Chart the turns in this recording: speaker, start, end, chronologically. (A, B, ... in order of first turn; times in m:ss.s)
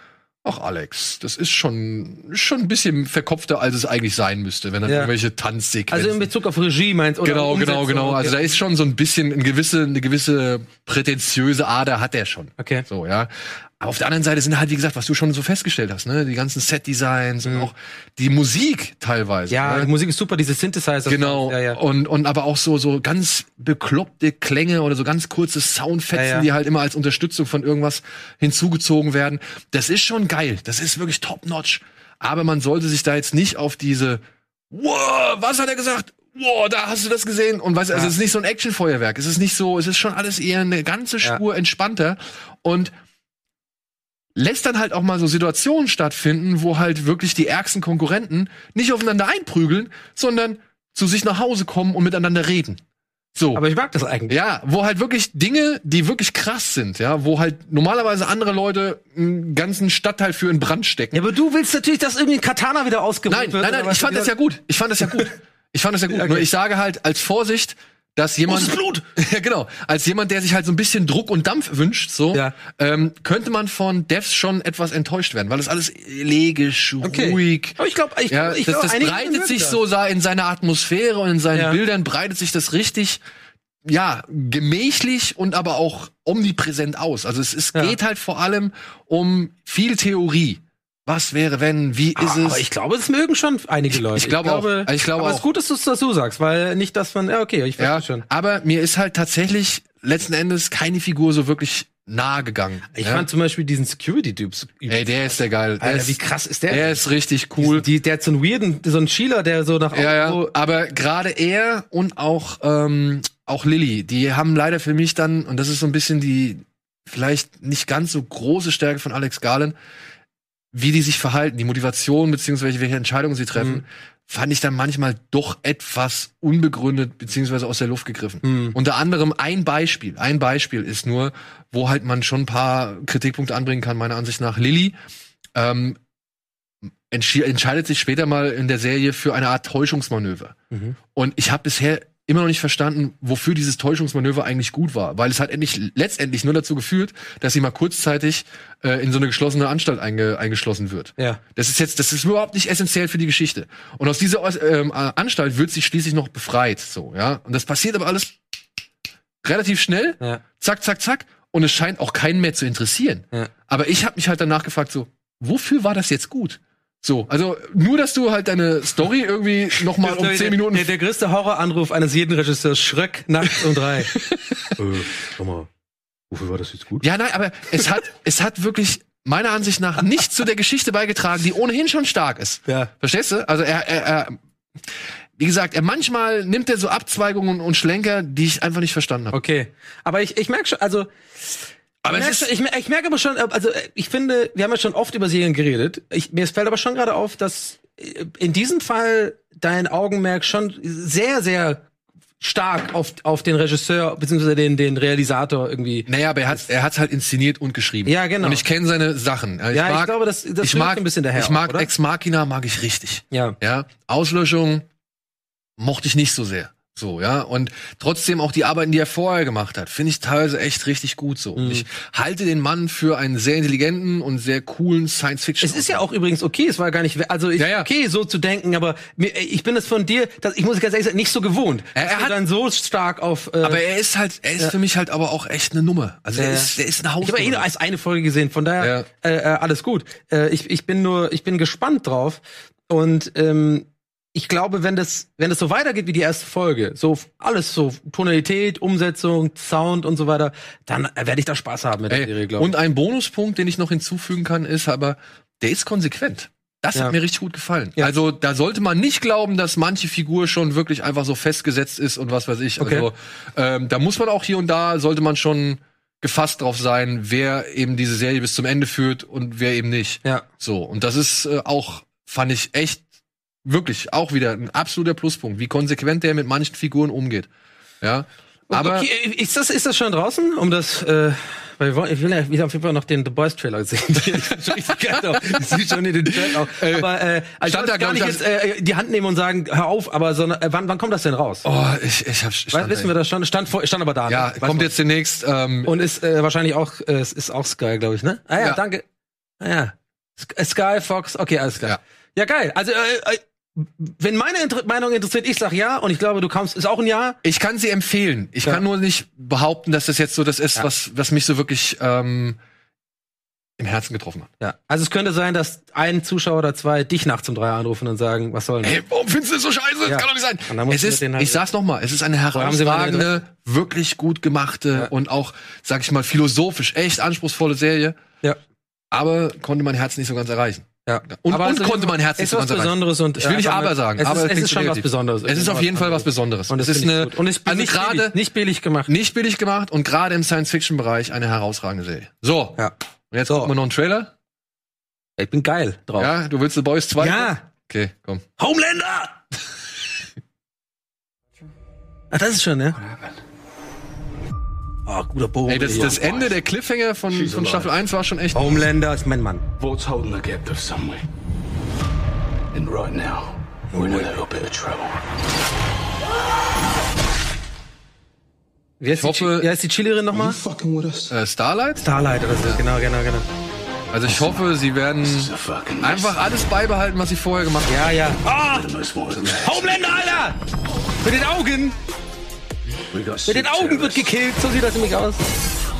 0:00.4-0:06.3 A
0:04.8-0:05.1 B
0:05.9-0:08.5 B
0:07.2-0:19.9 A
0:12.6-0:12.8 B
0:19.5-0:21.8 B
0:21.1-0:42.9 A
0:26.1-0:26.5 B
0:44.4-0:52.8 A
0:53.3-0:53.6 A
0:53.5-0:54.4 B
0:54.3-1:01.2 A
1:01.1-1:04.3 B
1:03.3-1:23.2 A
1:05.0-1:05.3 B
1:06.1-1:06.5 B
1:08.4-1:09.0 B
1:17.0-1:19.8 B
1:23.8-1:32.6 A
1:32.2-1:38.2 B
1:33.9-1:35.4 A
1:37.8-1:43.3 A
1:42.9-1:45.0 B
1:44.9-1:47.8 A
1:45.8-1:47.0 B
1:47.6-1:50.5 B
1:49.9-1:59.7 A
2:00.7-2:14.9 A
2:03.6-2:03.8 B
2:08.4-2:08.8 B
2:15.5-2:16.0 A
2:17.1-2:20.6 A
2:20.7-2:21.0 B
2:21.1-2:38.3 A
2:39.4-2:50.9 A
2:49.9-2:54.1 B
2:54.1-2:54.7 A
2:54.8-2:55.7 B
2:56.3-2:57.0 B
2:57.0-3:04.4 A
3:05.4-3:09.4 A
3:09.3-3:21.8 B
3:12.0-3:12.5 A
3:22.4-3:26.6 B
3:26.0-3:34.8 A
3:28.0-3:28.6 B
3:29.7-3:31.9 B
3:33.3-3:33.6 B
3:35.8-3:46.0 A
3:41.5-3:41.8 B
3:45.6-3:53.8 B
3:47.6-3:47.9 A
3:51.9-3:52.3 A
3:53.6-3:57.6 A
3:56.4-4:12.7 B
3:58.8-3:59.1 A
4:12.1-4:33.0 A
4:22.8-4:23.1 B
4:33.6-4:37.5 A
4:38.0-4:39.1 A
4:38.7-4:51.6 B
4:45.4-4:45.7 A
4:46.2-4:47.1 A
4:47.6-4:48.4 A
4:51.6-4:53.1 A
4:52.7-4:54.9 B
4:54.3-4:56.0 A
4:55.8-4:59.0 B
4:59.6-5:07.4 B
5:07.4-5:12.6 A
5:13.8-5:14.5 A
5:14.6-5:19.0 B
5:18.8-5:28.2 A
5:20.0-5:21.6 B
5:22.5-5:23.4 B
5:29.1-5:38.4 A
5:31.0-5:39.1 B
5:39.1-5:44.3 A
5:43.5-5:43.7 B
5:45.4-5:46.3 B
5:46.2-5:48.4 A
5:47.2-5:47.6 B
5:48.6-5:49.4 B
5:52.3-5:53.0 B
5:53.0-5:53.3 C
5:55.0-5:56.2 B
5:55.7-5:58.8 A
5:56.1-5:56.5 C
5:57.3-5:57.9 C
5:58.5-5:59.6 B
5:59.8-6:01.3 C
6:02.7-6:05.2 C
6:03.9-6:04.3 B
6:09.0-6:10.6 B
6:09.1-6:09.7 A
6:10.3-6:11.3 C
6:11.3-6:12.8 A
6:12.0-6:13.5 B
6:14.1-6:18.1 A
6:14.2-6:16.4 C
6:17.9-6:18.9 B
6:18.5-6:20.1 C
6:19.5-6:20.6 B
6:21.2-6:22.0 B
6:23.1-6:24.3 C
6:23.4-6:25.4 B